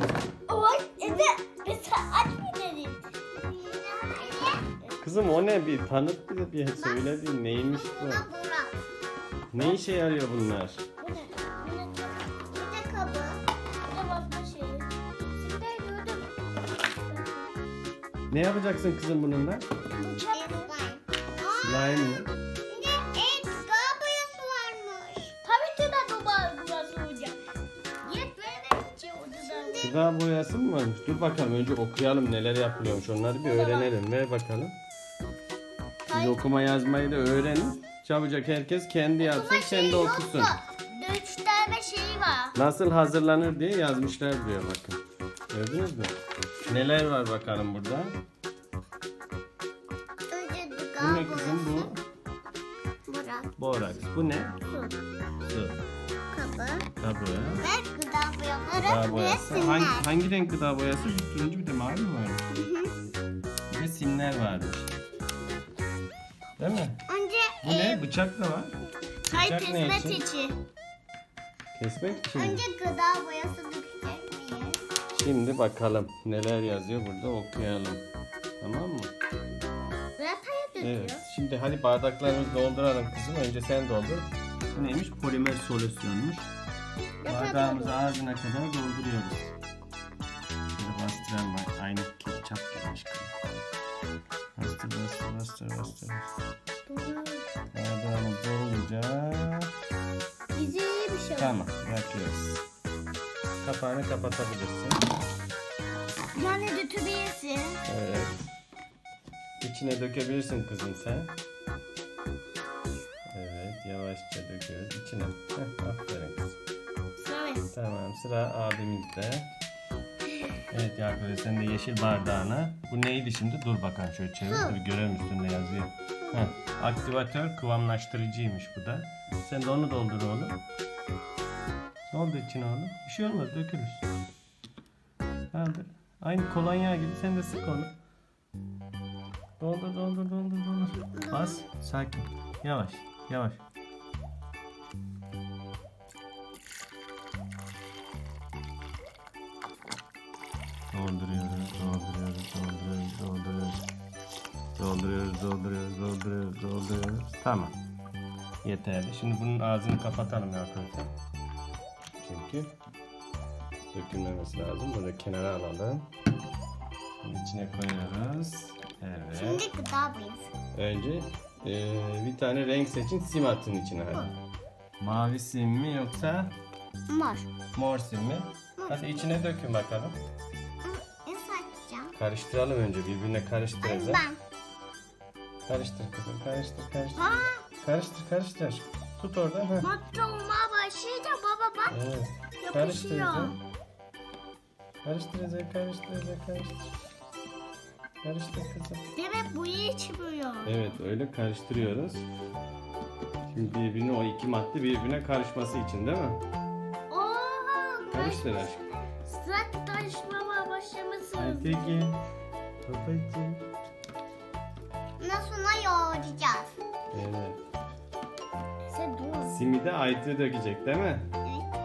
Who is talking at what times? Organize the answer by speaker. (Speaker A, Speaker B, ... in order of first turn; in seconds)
Speaker A: 0.5-3.1, 4.8-5.2, 11.0-12.2, 13.9-16.3, 16.9-17.5, 19.9-20.7, 25.4-27.4, 28.0-29.9, 33.3-33.9, 39.2-42.5, 69.3-70.6, 80.2-81.2, 87.2-88.0, 96.9-97.5, 100.5-101.6, 106.3-107.8, 117.2-117.6, 189.8-192.0, 192.6-193.6, 199.2-200.8, 207.1-212.1, 218.9-219.5
Speaker B: 3.4-4.7, 6.8-7.2, 7.7-8.8, 12.5-13.5, 20.3-25.4, 29.4-30.0, 36.1-36.4, 50.3-51.9, 53.1-53.5, 56.3-56.9, 57.6-60.1, 62.5-62.9, 67.1-68.0, 72.1-74.8, 124.4-124.8, 141.0-141.7, 169.3-170.5, 177.1-177.5, 178.8-179.2, 180.8-182.2, 183.8-184.4, 187.2-187.6, 215.2-216.8
Speaker C: 5.0-8.3, 9.5-10.8, 18.3-19.6, 21.6-22.3, 29.8-34.7, 36.1-40.6, 42.5-46.1, 46.6-48.2, 51.0-52.0, 53.6-54.6, 55.4-55.8, 57.0-57.7, 58.7-62.5, 63.7-64.9, 66.6-67.0, 67.6-68.8, 69.3-70.2, 71.7-72.6, 75.1-78.0, 78.6-79.1, 80.8-86.5, 87.2-89.5, 90.8-93.3, 94.5-96.3, 97.7-99.7, 101.3-102.6, 103.6-105.0, 107.8-108.5, 109.6-111.3, 113.3-116.5, 117.7-119.5, 120.7-130.6, 132.1-134.0, 135.5-137.9, 139.6-143.6, 150.9-153.8, 154.8-157.7, 158.6-161.1, 162.2-162.7, 163.9-166.1, 167.2-169.7, 170.7-174.3, 175.0-176.5, 177.7-180.2, 182.1-184.3, 185.6-189.9, 191.9-193.6, 195.0-196.9, 198.2-199.1, 200.6-202.3, 203.5-206.4, 208.1-208.8, 211.4-212.2, 212.8-213.6, 217.1-217.6, 219.4-221.3